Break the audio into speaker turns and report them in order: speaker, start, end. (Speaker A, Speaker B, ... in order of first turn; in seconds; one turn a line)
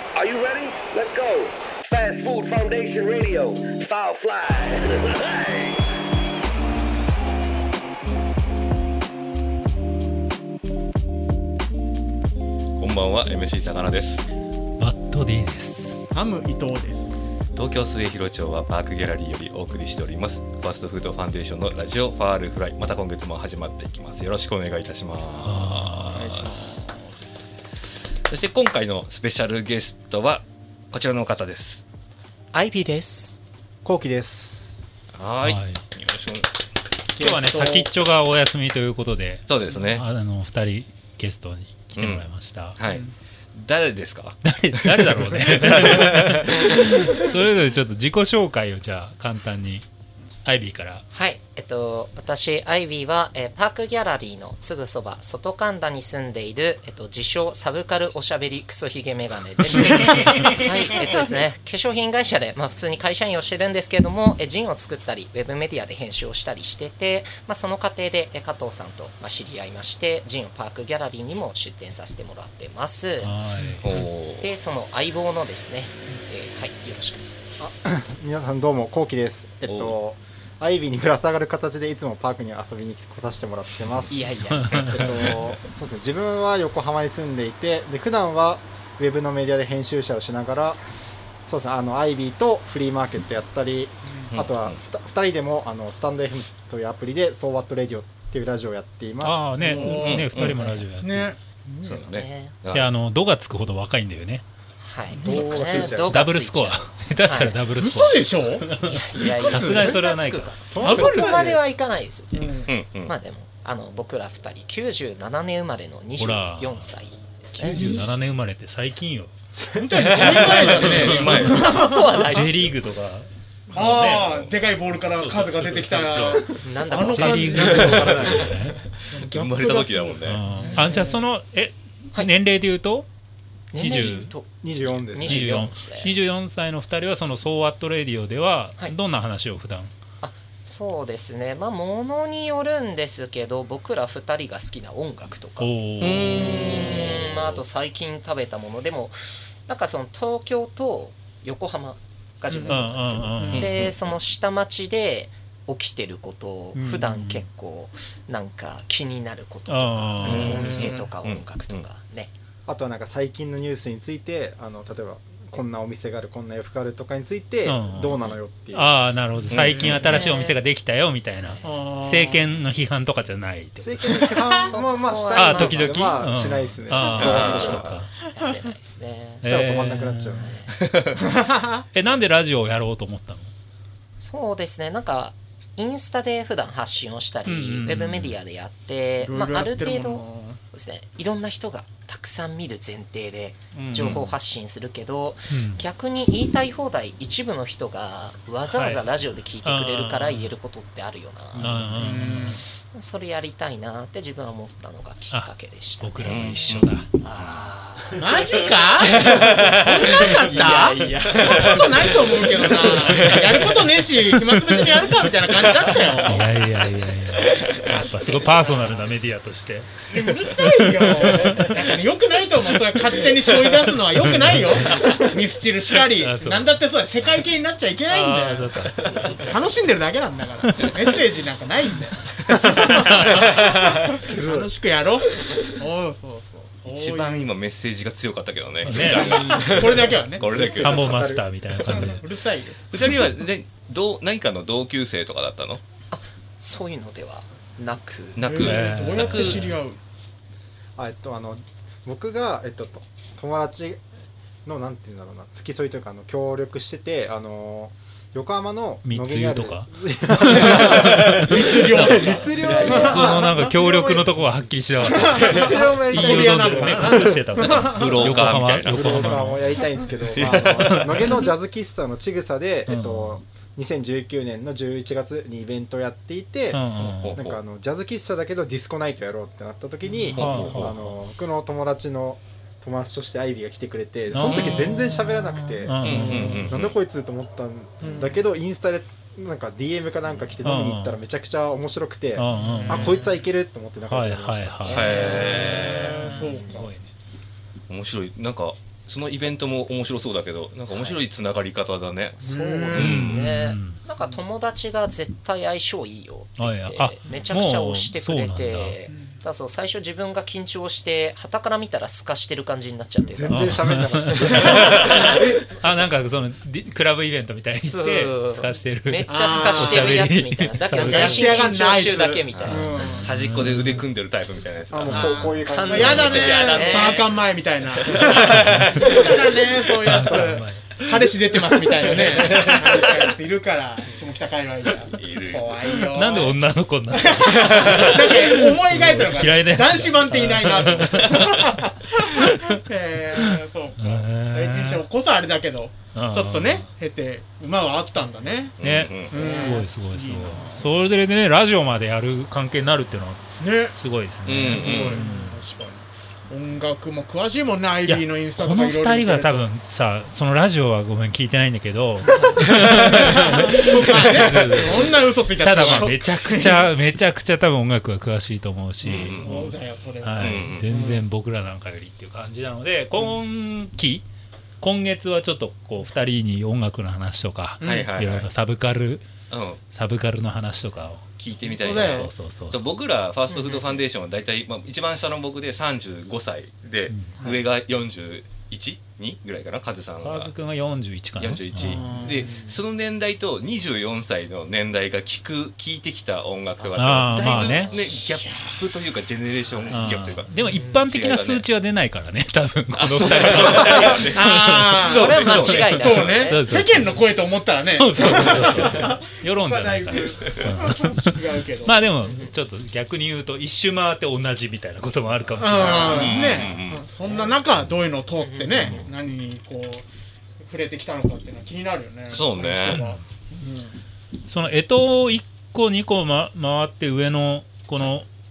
Speaker A: 0.1-5.8
Speaker B: 12.8-14.3
Speaker C: 14.8-16.0
Speaker D: 16.1-17.1
Speaker B: 17.5-26.5
Speaker C: 25.4-26.5
Speaker D: 26.4-27.1
Speaker B: 28.3-31.8
Speaker E: 32.5-33.4
Speaker F: 33.8-34.6
Speaker B: 35.1-36.5
Speaker C: 35.4-35.8
Speaker D: 37.1-37.9
Speaker C: 37.2-42.8
Speaker B: 39.5-40.1
Speaker B: 42.0-42.2
Speaker B: 42.8-46.6
Speaker C: 44.4-49.9
Speaker C: 50.4-51.0
Speaker E: 51.1-73.3
Speaker C: 73.2-73.8
Speaker D: 73.7-74.0
Speaker B: 73.8-74.5
Speaker E: 73.9-77.3
Speaker F: 77.6-90.8
Speaker B: 79.7-80.0
Speaker E: 84.1-85.3
Speaker F: 91.5-99.5
Speaker B: 94.3-94.8
Speaker C: 99.2-101.3
Speaker D: 99.6-100.3
Speaker B: 99.9-100.7
Speaker E: 100.3-100.8
Speaker D: 101.0-102.0
Speaker B: 101.8-102.9
Speaker E: 101.8-102.6
Speaker C: 102.7-104.4
Speaker E: 104.8-107.7
Speaker F: 105.2-106.3
Speaker C: 105.2-111.1
Speaker D: 107.8-110.0
Speaker E: 108.9-118.0
Speaker F: 110.7-111.6
Speaker D: 110.9-111.5
Speaker D: 112.3-112.7
Speaker B: 112.7-113.1
Speaker C: 116.2-116.9
Speaker C: 117.6-119.3
Speaker D: 117.7-118.0
Speaker F: 119.5-120.0
Speaker D: 119.8-122.2
Speaker B: 120.0-121.7
Speaker C: 120.2-124.3
Speaker E: 121.4-122.8
Speaker D: 123.7-131.2
Speaker B: 123.9-126.5
Speaker E: 126.5-128.1
Speaker C: 126.9-128.8
Speaker B: 127.6-128.2
Speaker B: 129.2-130.5
Speaker C: 130.2-133.1
Speaker E: 133.7-136.1
Speaker C: 133.8-134.3
Speaker F: 134.6-135.6
Speaker C: 135.2-139.9
Speaker E: 140.2-162.3
Speaker C: 145.6-146.9
Speaker B: 146.0-147.6
Speaker D: 152.5-152.8
Speaker C: 152.7-153.8
Speaker D: 153.4-153.7
Speaker B: 153.5-154.0
Speaker C: 156.8-157.5
Speaker C: 159.7-160.7
Speaker B: 160.2-161.8
Speaker F: 160.3-160.8
Speaker D: 160.5-161.1
Speaker F: 162.7-169.0
Speaker C: 167.7-174.6
Speaker B: 169.5-170.1
Speaker D: 169.6-170.1
Speaker E: 170.0-170.6
Speaker E: 171.4-171.7
Speaker D: 171.6-172.4
Speaker F: 173.8-178.0
Speaker E: 174.6-176.2
Speaker C: 175.3-178.1
Speaker E: 177.1-179.5
Speaker B: 177.2-177.9
Speaker C: 179.4-180.5
Speaker F: 179.4-180.5
Speaker E: 180.4-180.8
Speaker D: 181.2-181.8
Speaker C: 181.9-183.5
Speaker E: 184.2-202.4
Speaker D: 187.5-188.1
Speaker C: 187.5-188.3
Speaker D: 189.2-190.6
Speaker C: 193.7-194.3
Speaker C: 195.5-195.9
Speaker C: 198.7-199.0
Speaker C: 199.6-200.5
Speaker C: 201.6-202.6
Speaker D: 201.9-202.6
Speaker E: 202.9-208.3
Speaker C: 205.3-207.1
Speaker B: 206.2-207.0
Speaker D: 208.2-209.2
Speaker C: 208.9-222.0
Speaker D: 209.8-216.4
Speaker E: 210.2-210.6
Speaker D: 220.1-228.8
Speaker C: 222.8-225.3
Speaker C: 226.1-226.7
Speaker C: 228.1-229.3
Speaker D: 229.3-237.5
Speaker C: 232.5-234.0
Speaker F: 234.2-234.7
Speaker B: 236.8-241.2
Speaker C: 238.8-239.9
Speaker D: 239.1-240.6
Speaker F: 240.4-241.5
Speaker C: 240.7-242.2
Speaker D: 241.9-242.8
Speaker B: 242.9-245.8
Speaker E: 246.1-248.4
Speaker B: 248.4-249.7
Speaker D: 248.4-250.0
Speaker C: 248.6-249.8
Speaker F: 251.0-254.0
Speaker F: 254.7-264.5
Speaker C: 259.0-269.9
Speaker D: 260.8-263.7
Speaker B: 261.1-261.3
Speaker D: 265.1-268.2
Speaker F: 265.2-267.4
Speaker B: 267.8-269.6
Speaker F: 268.2-295.1
Speaker B: 270.2-271.4
Speaker C: 270.5-271.3
Speaker C: 272.9-273.4
Speaker C: 276.7-277.4
Speaker B: 277.0-277.6
Speaker B: 280.3-281.1
Speaker C: 280.3-281.0
Speaker C: 284.3-286.7
Speaker B: 284.4-284.9
Speaker B: 286.0-287.0
Speaker D: 288.0-288.4
Speaker C: 290.6-291.2
Speaker C: 292.4-293.2
Speaker D: 292.6-293.2
Speaker C: 294.1-297.1
Speaker E: 294.9-296.0
Speaker B: 294.9-296.3
Speaker D: 295.7-296.9
Speaker B: 297.9-302.4
Speaker E: 300.9-301.2
Speaker E: 302.4-313.8
Speaker D: 302.4-303.1
Speaker B: 302.9-303.6
Speaker C: 302.9-304.0
Speaker C: 306.6-309.0
Speaker D: 309.1-309.4
Speaker F: 313.2-315.9
Speaker C: 313.4-321.7
Speaker E: 314.5-315.0
Speaker E: 317.8-322.9
Speaker D: 319.3-320.2
Speaker D: 321.0-323.3
Speaker B: 322.5-327.4
Speaker C: 322.6-324.1
Speaker F: 324.9-326.5
Speaker D: 325.1-350.9
Speaker E: 325.6-327.3
Speaker B: 328.1-329.4
Speaker C: 328.2-329.2
Speaker F: 328.4-329.2
Speaker C: 329.9-333.2
Speaker B: 335.1-336.1
Speaker C: 336.0-342.7
Speaker B: 337.5-338.0
Speaker C: 343.3-345.1
Speaker C: 346.1-346.9
Speaker B: 348.8-349.8
Speaker C: 348.8-355.6
Speaker D: 353.6-354.0
Speaker B: 354.5-355.2
Speaker D: 354.7-359.7
Speaker C: 358.0-374.2
Speaker D: 362.3-366.9
Speaker B: 369.0-369.7
Speaker D: 369.3-371.2
Speaker B: 370.4-371.0
Speaker C: 374.8-379.3
Speaker D: 377.8-378.1
Speaker B: 377.8-378.5
Speaker B: 379.5-379.8
Speaker C: 379.9-381.2
Speaker B: 381.4-390.5
Speaker D: 381.7-382.3
Speaker C: 381.8-382.9
Speaker E: 383.5-384.0
Speaker C: 387.1-387.3
Speaker E: 387.4-387.6
Speaker C: 390.2-392.1
Speaker B: 391.4-400.5
Speaker D: 391.9-392.5
Speaker E: 392.1-392.8
Speaker E: 396.8-398.3
Speaker C: 397.0-397.9
Speaker C: 399.9-407.2
Speaker E: 400.6-401.0
Speaker B: 401.0-401.7
Speaker B: 403.0-406.5
Speaker D: 404.2-412.1
Speaker E: 405.0-406.6
Speaker C: 407.9-416.5
Speaker E: 412.2-412.5
Speaker D: 415.6-420.1
Speaker E: 415.8-416.7
Speaker B: 415.8-417.1
Speaker E: 417.2-417.6
Speaker E: 418.4-419.0
Speaker C: 418.7-419.1
Speaker D: 420.6-424.0
Speaker B: 422.3-423.0
Speaker C: 422.9-423.2
Speaker C: 424.5-428.3